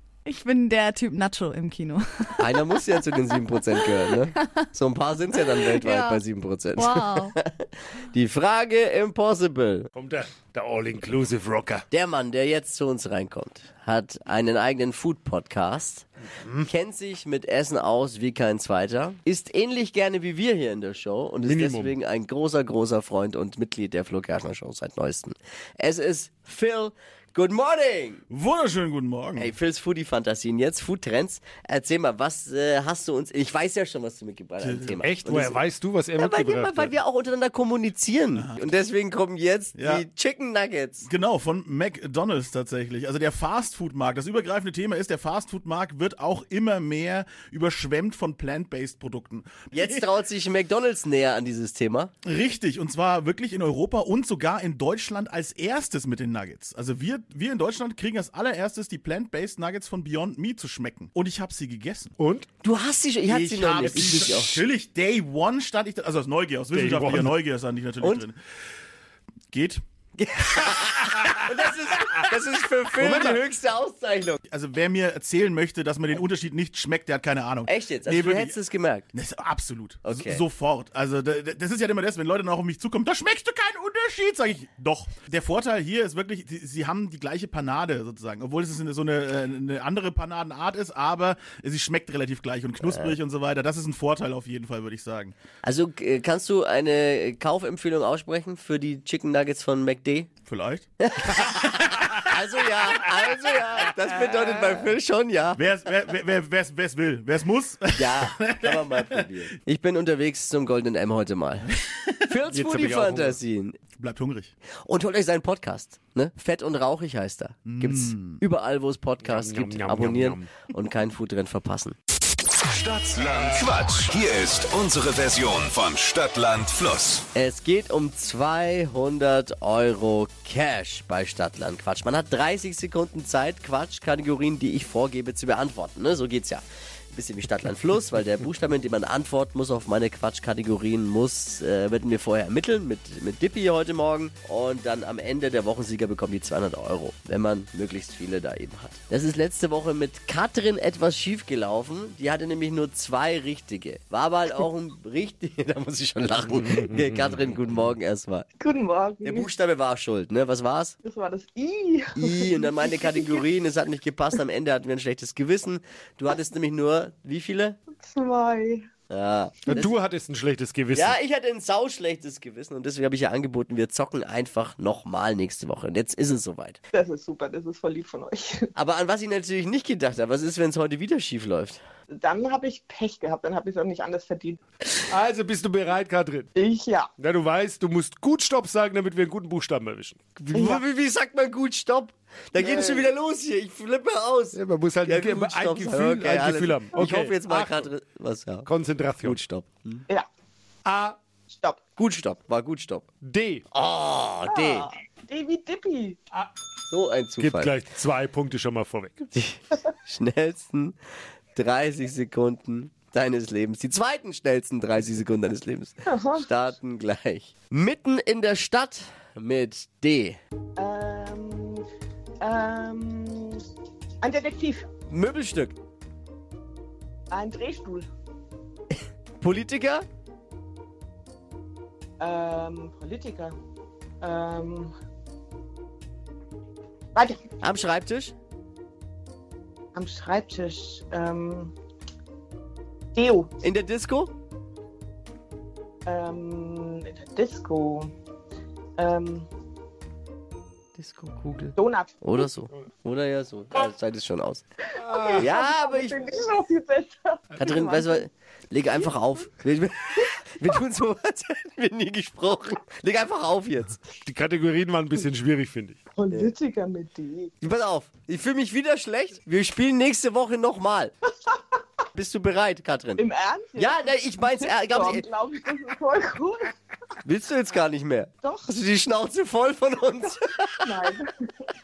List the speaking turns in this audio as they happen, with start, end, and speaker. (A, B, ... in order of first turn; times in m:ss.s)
0:00.2-0:04.5 A
0:02.4-0:09.9 B
0:05.6-0:06.2 A
0:06.8-0:07.4 A
0:10.0-0:11.8 C
0:11.9-0:16.1 B
0:16.6-0:28.2 B
0:21.4-0:21.9 C
0:28.3-0:29.5 D
0:29.4-0:35.6 B
0:34.6-0:35.0 D
0:35.0-0:37.0 C
0:36.2-0:41.1 B
0:39.8-0:40.0 D
0:41.0-0:50.0 D
0:49.7-0:52.1 B
0:52.2-1:02.2 D
1:02.2-1:02.5 C
1:02.6-1:04.6 B
1:03.3-1:08.4 D
1:06.7-1:07.4 C
1:08.0-1:08.3 B
1:09.5-1:09.8 D
1:10.2-1:14.4 B
1:13.1-1:13.4 D
1:14.5-1:18.6 D
1:17.7-1:19.1 B
1:19.1-1:35.4 D
1:20.0-1:20.4 B
1:32.8-1:33.2 B
1:35.6-1:40.3 B
1:40.5-1:40.9 D
1:41.0-1:45.6 B
1:45.6-1:49.2 D
1:48.0-1:51.7 B
1:52.3-1:53.8 B
1:52.5-1:53.4 C
1:54.0-1:54.5 D
1:54.8-2:02.0 B
1:57.7-1:58.4 D
1:59.2-2:00.5 C
2:02.7-2:07.3 E
2:07.4-2:38.5 B
2:38.6-2:39.5 F
2:39.2-2:41.0 B
2:41.0-2:43.4 F
2:42.2-2:47.8 B
2:48.0-2:48.9 F
2:49.1-2:49.9 B
2:49.7-2:51.2 C
2:50.9-2:56.8 B
2:56.9-2:58.7 F
2:58.8-3:01.8 B
3:02.1-3:04.6 F
3:05.1-3:06.5 C
3:06.6-3:07.1 F
3:07.2-3:10.8 C
3:10.5-3:20.0 B
3:12.6-3:12.9 F
3:14.5-3:17.9 C
3:18.7-3:19.4 C
3:20.8-3:21.2 C
3:21.5-3:21.8 F
3:22.0-3:23.0 B
3:23.2-3:23.6 C
3:23.7-3:24.9 B
3:24.5-3:26.2 F
3:26.9-3:27.7 B
3:27.4-3:29.3 C
3:29.3-3:31.0 B
3:31.6-3:40.4 B
3:36.1-3:36.5 F
3:40.8-3:41.8 F
3:42.4-3:43.6 F
3:44.2-3:44.9 F
3:45.1-3:45.8 B
3:47.3-3:48.1 F
3:49.4-3:50.0 B
3:52.2-3:53.6 F
3:54.2-3:54.9 F
3:57.2-3:57.4 F
3:57.6-3:58.3 B
4:00.0-4:01.7 F
4:03.2-4:03.5 F
4:03.6-4:04.3 B
4:06.1-4:08.1 F
4:09.0-4:09.5 F
4:11.0-4:14.6 B
4:11.8-4:12.1 F
4:15.0-4:15.4 C
4:15.1-4:18.0 F
4:15.4-4:16.2 B
4:17.6-4:24.0 B
4:24.2-4:26.0 C
4:26.2-4:27.5 F
4:27.6-4:31.2 B
4:32.1-4:33.2 B
4:33.2-4:36.7 F
4:33.8-4:35.2 B
4:37.2-4:41.0 B
4:38.4-4:38.7 F
4:40.2-4:41.3 F